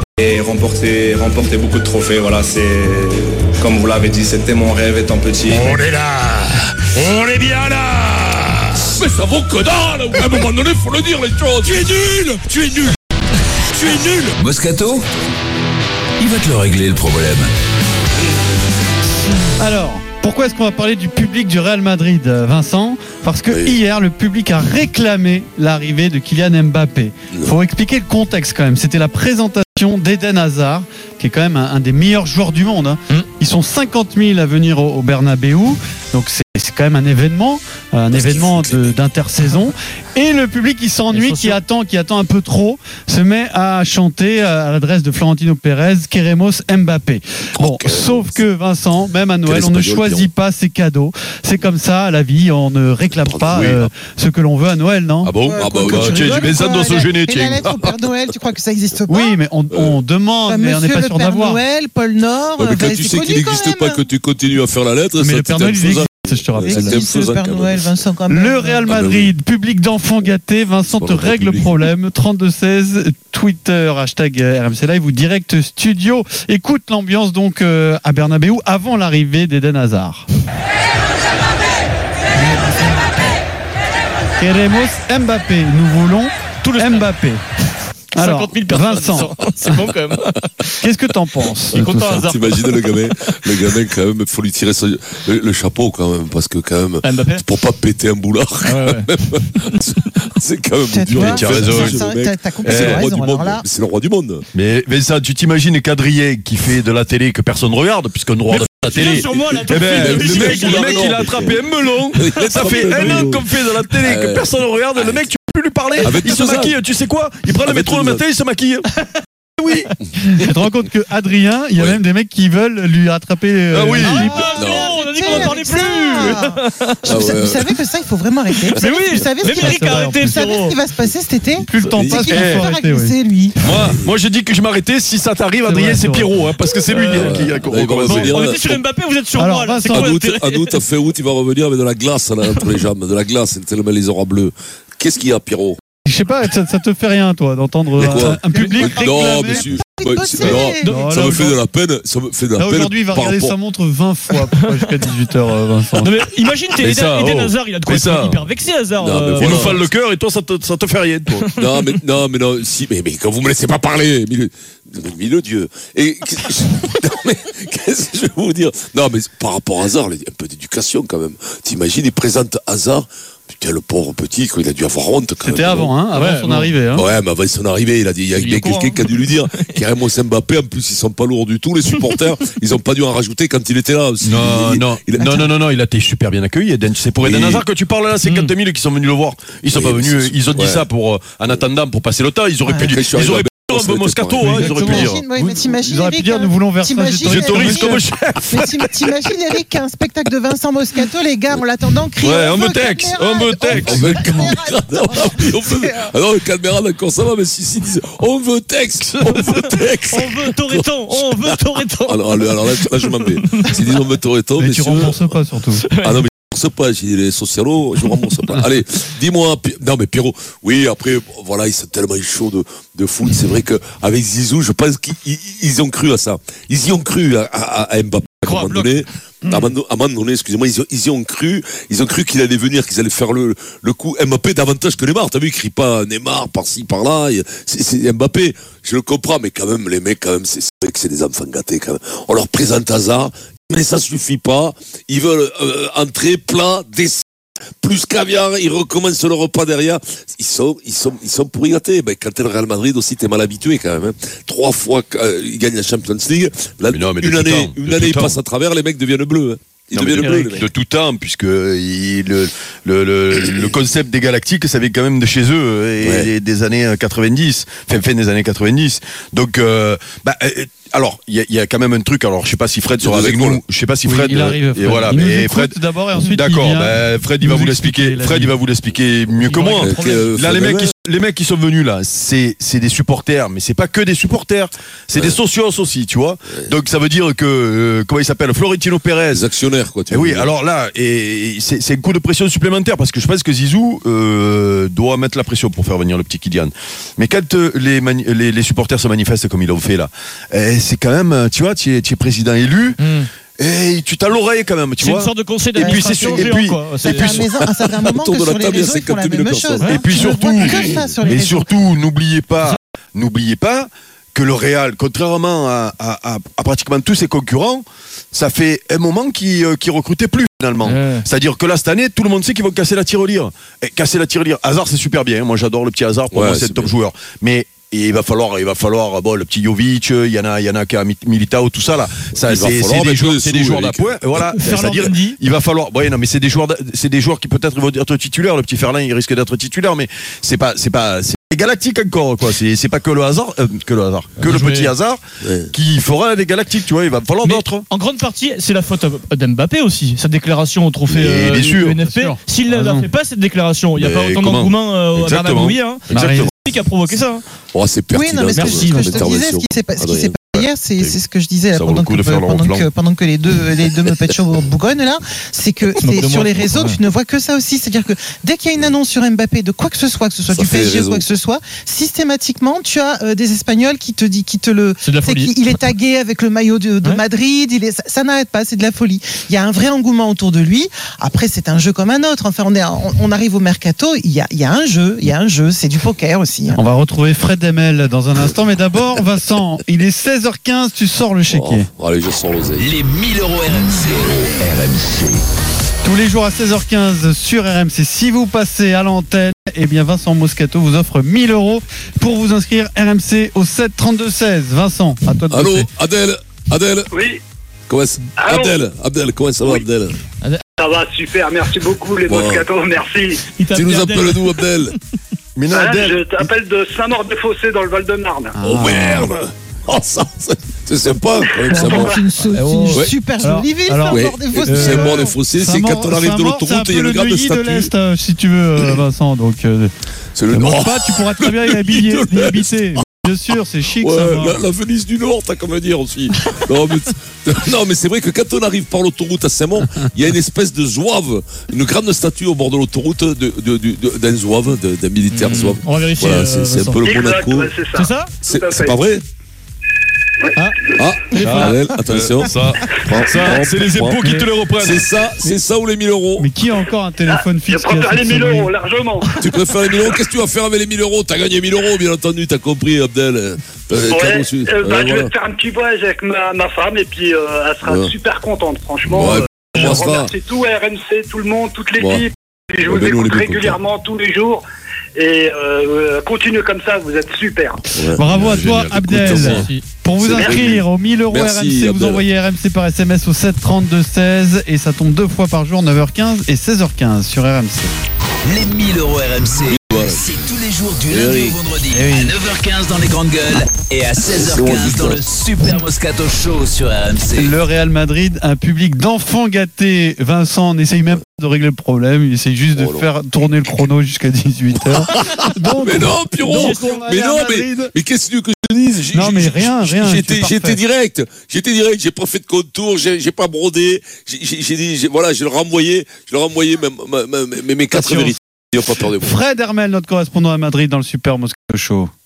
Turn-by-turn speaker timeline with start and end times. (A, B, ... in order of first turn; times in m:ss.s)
0:00.2-0:05.8 A
0:05.5-0:11.0 B
0:09.0-0:11.8 C
0:11.6-0:13.0 B
0:13.7-0:14.3 B
0:14.4-0:15.0 D
0:16.2-0:17.5 D
0:19.6-0:55.3 E
0:23.5-0:23.8 C
0:38.1-0:39.0 C
0:41.1-0:41.6 F
0:47.6-0:48.4 C
0:49.4-0:50.3 C
0:53.1-0:53.8 C
0:53.5-0:53.9 G
0:55.2-0:57.8 G
0:55.4-0:59.4 H
0:55.6-0:56.5 C
0:57.6-0:57.9 C
0:59.1-1:01.6 E
0:59.7-1:00.0 C
1:00.5-1:04.1 H
1:02.6-1:08.0 C
1:05.2-1:07.0 E
1:06.6-1:08.9 H
1:08.3-1:20.3 E
1:08.9-1:09.3 C
1:10.9-1:11.9 C
1:24.4-1:27.4 E
1:26.6-1:27.2 F
1:28.2-1:29.4 E
1:28.2-1:30.8 F
1:30.8-1:32.3 E
1:31.7-1:33.8 F
1:31.9-1:44.4 C
1:37.0-1:37.4 F
1:38.6-1:39.1 F
1:40.9-1:43.7 H
1:41.2-1:42.1 G
1:42.6-1:43.1 G
1:44.5-1:58.9 G
1:48.5-1:53.4 F
1:49.1-1:51.6 C
1:52.2-1:53.4 C
1:54.0-1:55.3 C
1:56.0-1:56.8 C
1:57.6-1:58.2 C
2:00.2-2:04.5 E
2:01.8-2:02.0 C
2:03.7-2:04.3 G
2:04.0-2:13.6 H
2:04.1-2:07.1 F
2:04.6-2:05.5 C
2:07.0-2:07.8 C
2:08.6-2:10.8 F
2:09.5-2:10.4 E
2:11.6-2:13.2 E
2:11.9-2:12.4 C
2:12.3-2:12.7 G
2:13.6-2:18.4 G
2:15.7-2:16.2 E
2:15.8-2:16.3 F
2:16.9-2:17.3 F
2:17.1-2:18.8 C
2:18.1-2:20.8 F
2:19.3-2:20.2 E
2:19.9-2:25.8 C
2:22.5-2:22.8 F
2:26.0-2:29.7 E
2:28.0-2:33.6 C
2:28.0-2:31.1 H
2:30.4-2:31.6 E
2:30.7-2:31.0 F
2:32.6-2:36.1 E
2:34.5-2:34.8 F
2:36.0-2:39.8 F
2:36.8-2:38.4 G
2:39.0-2:39.8 C
2:39.3-2:41.5 G
2:41.4-2:41.9 F
2:41.6-2:56.0 C
2:55.4-2:57.1 E
2:56.1-2:56.8 F
2:56.9-3:05.5 C
2:58.4-2:59.8 F
3:04.2-3:15.2 G
3:07.2-3:07.6 C
3:08.2-3:08.5 F
3:09.7-3:10.9 C
3:12.6-3:13.0 H
3:12.8-3:14.6 C
3:14.4-3:18.0 E
3:14.7-3:26.1 H
3:17.2-3:18.9 G
3:22.2-3:24.3 G
3:23.8-3:35.4 C
3:29.0-3:29.6 G
3:29.2-3:33.9 F
3:34.6-3:35.8 E
3:35.8-3:36.3 F
3:36.0-4:07.2 C
3:48.4-3:49.7 F
4:07.8-4:20.6 C
4:16.9-4:18.4 G
4:19.9-4:35.8 G
4:20.2-4:20.6 F
4:26.0-4:26.3 C
4:33.0-4:33.6 C
4:34.0-4:38.6 E
4:36.3-4:49.4 G
4:39.4-4:40.3 F
4:39.7-4:40.9 C
4:49.3-4:50.5 C
4:50.1-5:03.0 G
5:03.0-5:03.3 F
5:03.6-5:07.4 G
5:05.0-5:07.4 F
5:05.8-5:11.7 H
5:07.2-5:09.9 C
5:09.8-5:10.1 F
5:09.9-5:47.8 G
5:20.9-5:21.2 F
5:26.3-5:26.9 C
5:32.4-5:34.4 C
5:34.4-5:35.4 F
5:44.4-5:44.9 F
5:45.4-5:45.7 C
5:47.4-5:57.4 F
5:51.1-5:52.0 G
5:52.0-5:53.1 E
5:54.0-5:56.5 G
5:56.1-5:56.5 E
5:57.7-6:00.4 C
5:58.1-6:26.8 H
5:58.6-5:59.2 F
6:01.7-6:02.9 G
6:06.0-6:07.0 F
6:10.5-6:11.3 C
6:15.0-6:15.8 F
6:26.7-6:31.9 E
6:31.5-6:33.0 C
6:32.8-6:35.4 D
6:36.0-6:45.9 E
6:45.5-6:47.1 C
6:47.1-6:47.4 I
6:47.9-6:50.2 C
6:48.4-6:48.8 I
6:50.4-6:50.6 F
6:50.8-6:53.4 I
6:52.3-6:52.7 C
6:53.5-6:54.9 F
6:53.7-6:54.9 C
6:55.6-6:56.2 G
6:55.7-6:58.6 I
6:58.6-6:59.3 E
6:58.6-7:02.2 C
7:01.6-7:05.4 H
7:02.5-7:09.9 E
7:04.1-7:07.9 C
7:10.4-7:13.1 C
7:10.5-7:14.7 E
7:14.0-7:27.8 C
7:25.3-7:27.1 F
7:27.0-7:29.0 I
7:27.9-7:28.4 F
7:28.5-7:29.2 C
7:31.0-7:34.2 C
7:31.3-7:31.6 F
7:31.4-7:35.1 G
7:34.2-7:34.5 E
7:34.8-7:36.5 C
7:36.4-7:38.7 E
7:37.2-7:39.3 I
7:39.4-7:45.3 C
7:44.0-7:54.6 I
7:47.8-7:48.1 C
7:49.1-7:50.3 C
7:52.0-7:52.3 C
7:52.8-7:53.8 C
7:55.2-7:57.8 I
7:57.9-8:02.2 C
7:58.1-8:07.9 E
7:58.3-7:59.5 G
7:59.6-7:59.8 F
8:00.4-8:00.7 I
8:08.4-8:17.5 D
8:09.6-8:11.6 C
8:11.9-8:12.4 E
8:14.2-8:15.2 C
8:17.3-8:28.0 E
8:22.8-8:23.1 C
8:24.9-8:39.4 C
8:26.4-8:27.0 F
8:29.1-8:30.8 E
8:37.9-8:38.4 E
8:39.1-8:42.1 E